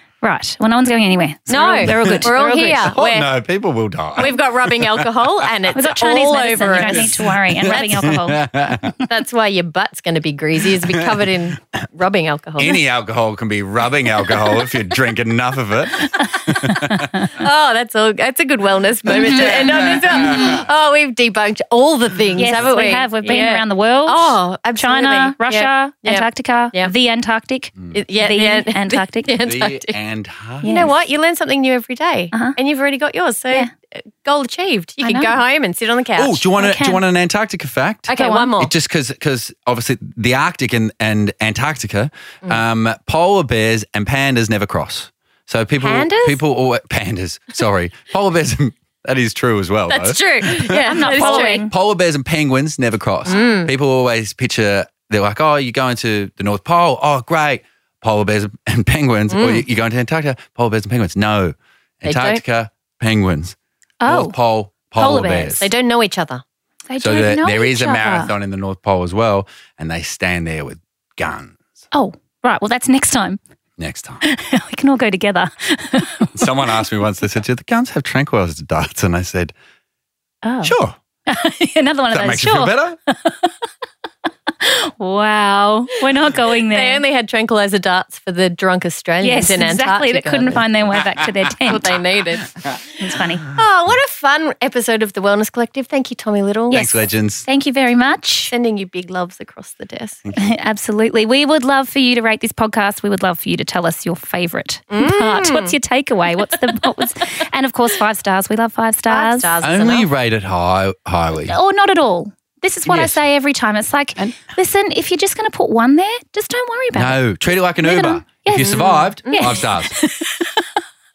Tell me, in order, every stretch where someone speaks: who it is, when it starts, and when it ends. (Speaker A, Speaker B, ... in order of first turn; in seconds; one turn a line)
Speaker A: 0.2-2.9
Speaker B: 1.5-3.3
Speaker C: 1.8-5.2
Speaker B: 4.2-8.1
Speaker A: 5.7-8.4
Speaker C: 6.9-8.9
Speaker B: 9.0-12.8
Speaker C: 10.7-11.4
Speaker C: 12.6-17.1
Speaker A: 16.1-17.3
Speaker B: 17.3-26.9
Speaker A: 19.1-19.8
Speaker C: 19.2-20.6
Speaker A: 22.4-29.4
Speaker B: 27.9-29.9
Speaker C: 29.4-30.9
Speaker A: 30.6-30.9
Speaker B: 30.6-36.4
Speaker A: 32.3-32.6
Speaker A: 35.0-35.4
Speaker C: 36.1-65.6
Speaker A: 36.6-37.0
Speaker B: 38.1-38.7
Speaker A: 38.2-38.5
Speaker B: 45.8-46.4
Speaker B: 49.9-51.7
Speaker A: 50.7-51.7
Speaker B: 53.3-53.7
Speaker B: 59.3-59.6
Speaker B: 62.0-62.4
Speaker A: 64.0-64.3
Speaker A: 64.9-65.6
Speaker B: 65.6-66.4
Speaker A: 66.9-68.3
Speaker C: 67.0-71.6
Speaker A: 71.9-73.4
Speaker C: 73.8-74.2
Speaker A: 74.2-76.5
Speaker C: 76.3-79.5
Speaker A: 80.4-80.8
Speaker C: 80.6-81.0
Speaker A: 81.3-83.5
Speaker C: 82.1-83.0
Speaker A: 84.6-87.0
Speaker B: 86.6-90.6
Speaker A: 89.2-91.9
Speaker B: 91.6-92.5
Speaker A: 93.0-93.5
Speaker B: 93.5-96.9
Speaker C: 96.7-97.4
Speaker A: 96.7-98.5
Speaker B: 98.5-100.2
Speaker A: 100.3-109.6
Speaker B: 104.9-105.7
Speaker B: 109.1-110.1
Speaker C: 109.6-111.5
Speaker A: 111.5-117.2
Speaker C: 112.8-113.2
Speaker C: 116.9-119.9
Speaker A: 117.8-120.7
Speaker B: 118.7-119.5